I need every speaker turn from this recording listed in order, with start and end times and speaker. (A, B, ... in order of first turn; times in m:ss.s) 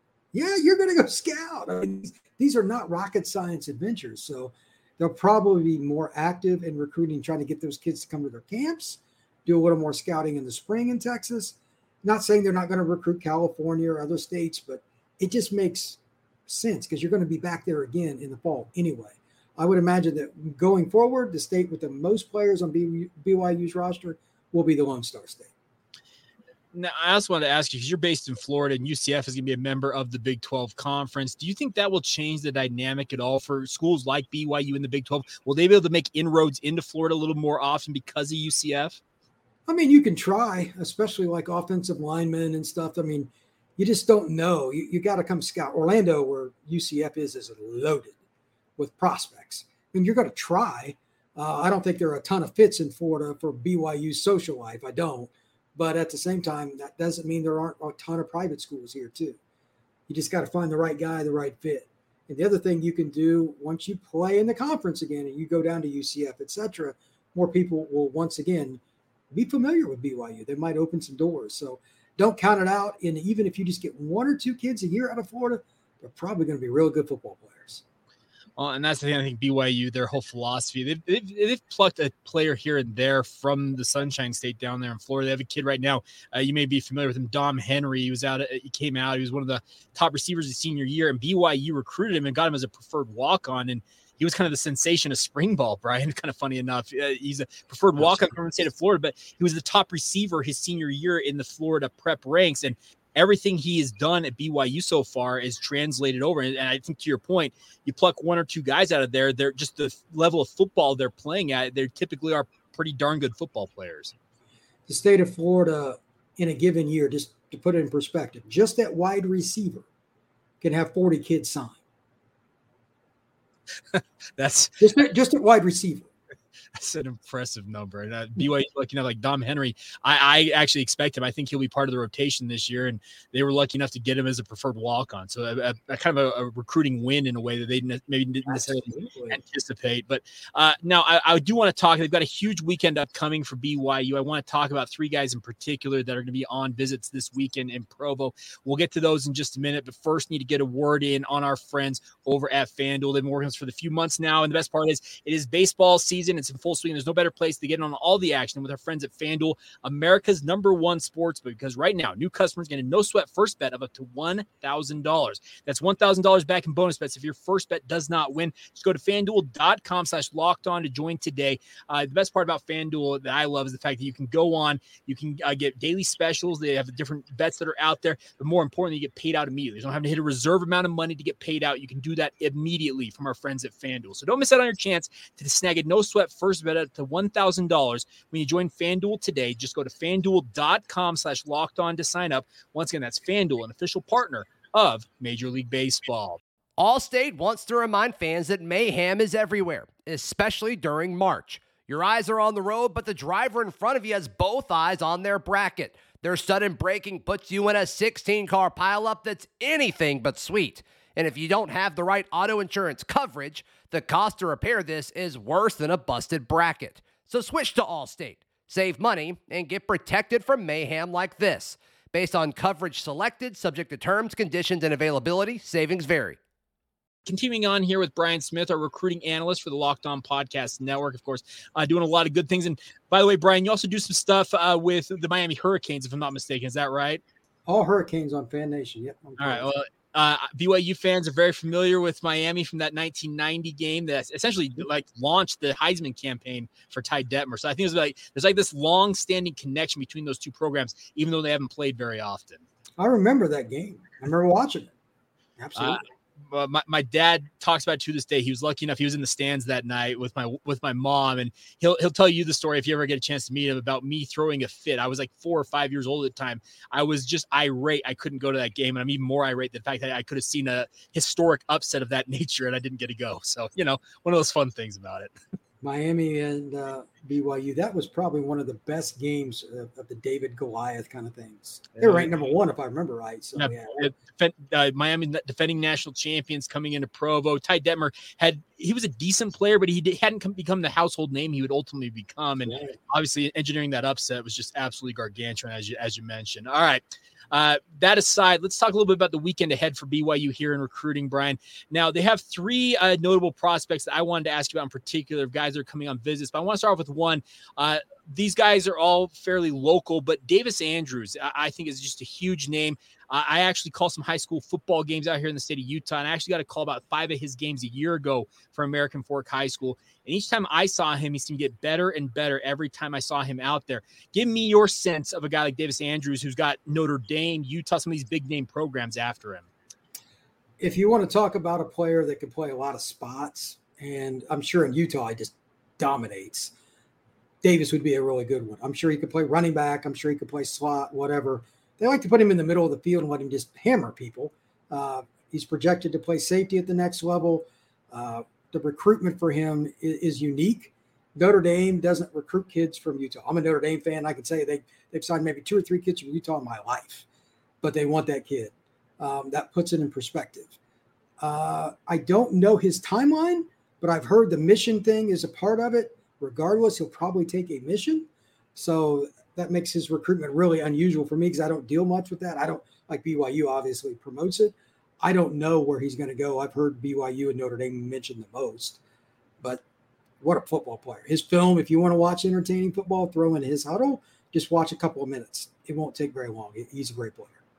0:00.3-0:25.5 A
0:26.7-0:39.0 B
0:39.7-0:48.2 A
0:48.8-0:59.4 A
1:00.1-1:08.8 A
1:09.3-1:17.8 A
1:18.6-1:54.1 B
1:38.0-1:38.3 A
1:54.9-1:59.9 A
2:00.6-2:01.8 A
2:03.9-2:04.8 B
2:04.8-2:06.1 A
2:06.8-3:16.4 B
2:18.5-2:19.4 A
3:16.8-3:46.4 C
3:47.3-3:57.2 B
3:57.7-3:59.7 A
3:59.4-4:12.6 B
4:13.0-4:14.9 A
4:15.6-4:16.0 A
4:15.8-4:35.3 B
4:35.8-4:44.1 A
4:42.0-4:42.3 B
4:43.6-5:29.7 B
4:52.7-4:53.0 A
5:30.8-5:36.7 A
5:37.6-5:57.2 A
5:57.8-6:00.8 A
6:01.4-6:19.0 A
6:20.4-6:27.6 A